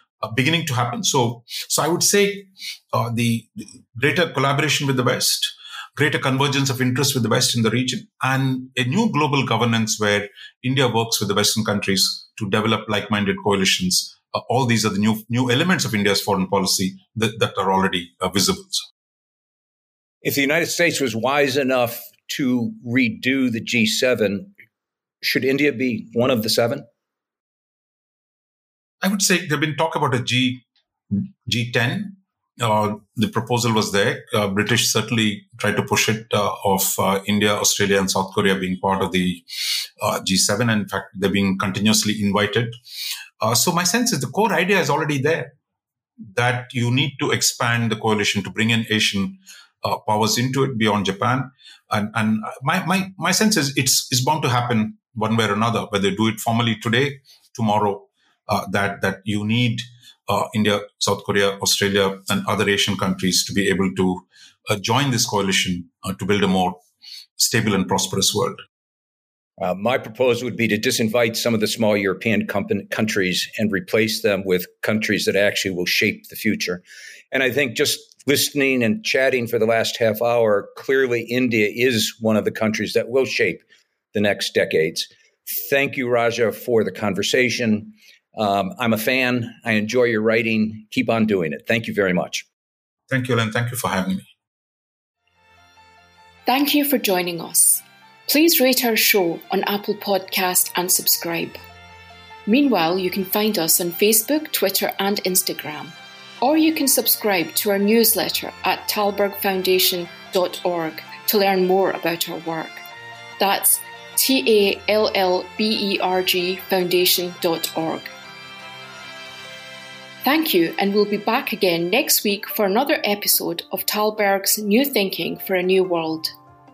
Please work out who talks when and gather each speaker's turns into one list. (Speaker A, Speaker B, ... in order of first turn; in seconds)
Speaker A: 0.2-18.9, 29.0-42.7, 43.4-45.5, 46.3-66.8, 67.4-68.6, 93.1-94.3
Speaker B: 20.2-24.5, 25.2-26.8, 69.6-92.4
Speaker C: 96.5-101.6, 102.5-112.8, 113.4-118.1, 120.2-126.3